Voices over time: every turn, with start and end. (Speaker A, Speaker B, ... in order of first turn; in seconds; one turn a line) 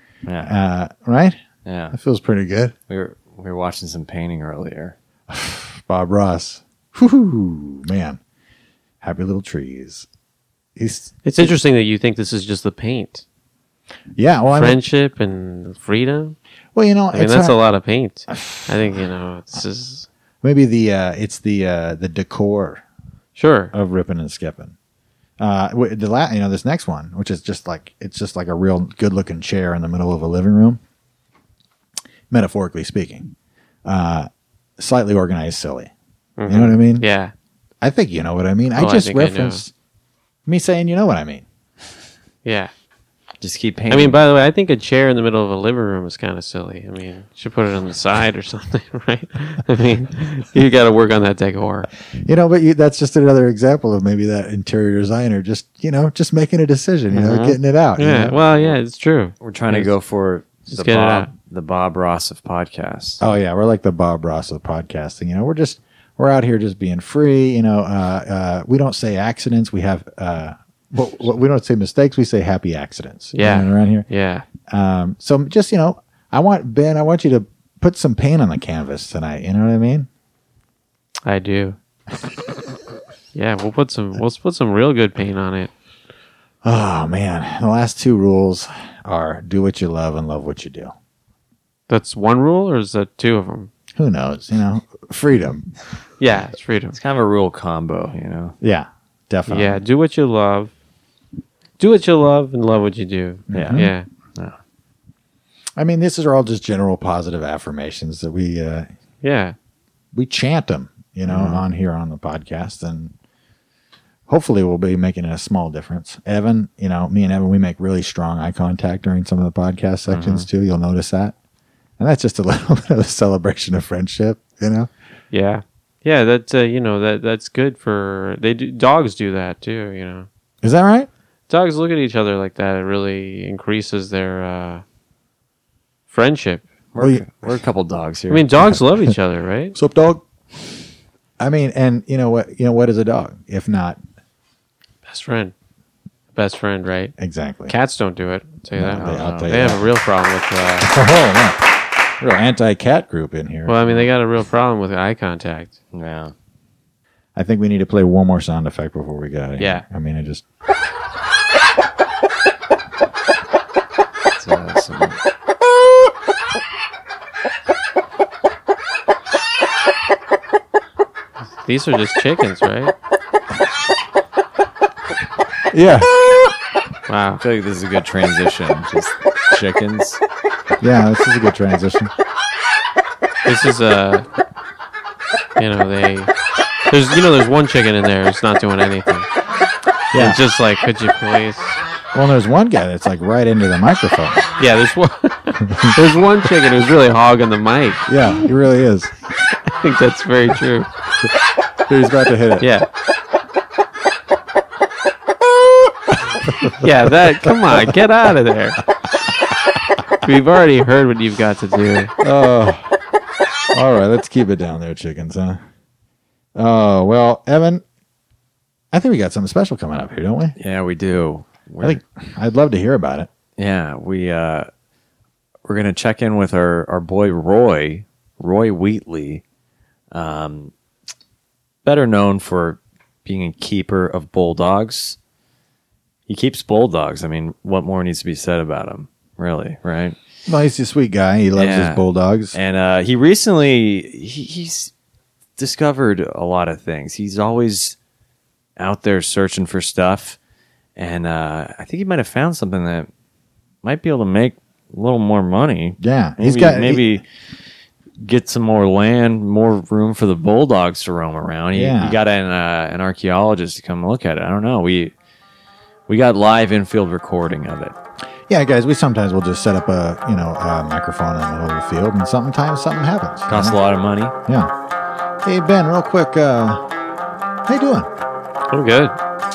Speaker A: 0.2-0.5
Speaker B: 0.4-1.4
Speaker A: 1.6-1.9
Speaker B: 1.9-2.7
Speaker A: 2.9-5.0
Speaker B: 5.3-8.2
Speaker B: 9.0-10.1
Speaker B: 10.8-11.5
Speaker C: 11.2-13.2
Speaker B: 14.2-14.8
Speaker C: 14.5-16.4
Speaker B: 16.7-17.6
Speaker C: 17.1-20.1
Speaker B: 18.3-18.8
Speaker B: 20.4-22.8
Speaker C: 23.4-23.7
Speaker B: 23.7-24.7
Speaker B: 25.4-30.8
Speaker B: 32.3-33.3
Speaker B: 33.8-35.9
Speaker C: 36.4-37.3
Speaker B: 36.5-37.1
Speaker B: 37.8-39.7
Speaker C: 38.8-39.6
Speaker B: 40.5-41.4
Speaker C: 42.4-42.7
Speaker A: 43.4-44.2
Speaker C: 43.9-51.9
Speaker B: 52.2-58.4
Speaker C: 57.1-59.9
Speaker A: 58.5-58.7
Speaker A: 59.4-63.2
Speaker C: 60.7-61.3
Speaker B: 63.2-74.1
Speaker C: 73.3-74.4
Speaker B: 74.7-80.1
Speaker C: 81.2-81.8
Speaker C: 83.3-85.7
Speaker B: 86.6-90.9
Speaker C: 91.9-93.7
Speaker B: 93.9-95.7
Speaker C: 96.2-97.0
Speaker A: 96.9-98.6
Speaker B: 98.6-99.8
Speaker C: 99.5-100.7
Speaker C: 101.8-104.0
Speaker B: 103.5-103.9
Speaker A: 103.5-104.5
Speaker B: 105.8-108.9
Speaker C: 109.2-109.5
Speaker B: 110.1-113.1
Speaker A: 111.3-111.6
Speaker B: 114.3-121.3
Speaker A: 120.1-120.5
Speaker B: 122.0-124.9
Speaker C: 125.3-130.3
Speaker B: 130.6-131.1
Speaker C: 131.5-134.8
Speaker C: 136.1-136.6
Speaker A: 136.9-138.4
Speaker B: 137.0-137.3
Speaker C: 138.3-139.7
Speaker B: 139.7-140.2
Speaker B: 141.4-144.0
Speaker C: 145.1-145.5
Speaker C: 146.3-147.1
Speaker B: 147.2-147.7
Speaker C: 147.7-150.9
Speaker B: 148.7-149.8
Speaker A: 149.0-149.5
Speaker B: 150.8-151.6
Speaker B: 152.2-153.9
Speaker C: 153.7-155.7
Speaker A: 155.9-156.3
Speaker B: 157.3-160.4
Speaker C: 159.6-159.8
Speaker A: 164.3-165.2
Speaker C: 171.6-172.9
Speaker B: 175.7-176.2
Speaker C: 177.1-177.4
Speaker A: 177.4-180.2
Speaker B: 180.8-182.1
Speaker C: 183.4-184.2
Speaker C: 185.6-186.3
Speaker C: 186.9-189.3
Speaker B: 190.1-190.4
Speaker C: 190.1-191.8
Speaker B: 192.1-194.5
Speaker C: 194.6-198.1
Speaker B: 195.7-195.9
Speaker B: 198.1-199.1
Speaker C: 199.7-200.9
Speaker B: 201.9-202.7
Speaker C: 202.6-202.9
Speaker B: 206.4-206.8
Speaker C: 206.8-208.8
Speaker C: 210.2-212.1
Speaker B: 212.2-212.9
Speaker B: 213.7-215.6
Speaker B: 216.5-217.8
Speaker B: 218.9-220.6
Speaker A: 220.6-222.0
Speaker B: 221.8-223.3
Speaker A: 223.6-224.7
Speaker A: 225.7-229.4
Speaker A: 230.1-230.7
Speaker A: 231.8-235.2
Speaker A: 236.3-240.2
Speaker B: 240.5-242.6
Speaker A: 241.6-244.9
Speaker A: 245.6-248.0
Speaker A: 248.8-250.4
Speaker A: 250.9-253.1
Speaker A: 253.8-257.2
Speaker B: 256.0-257.2
Speaker A: 258.2-265.1
Speaker B: 261.7-262.2
Speaker A: 266.1-267.9
Speaker B: 268.5-273.8
Speaker A: 273.5-274.3
Speaker B: 274.4-274.7
Speaker B: 275.4-276.8
Speaker B: 277.7-278.1
Speaker C: 278.7-279.1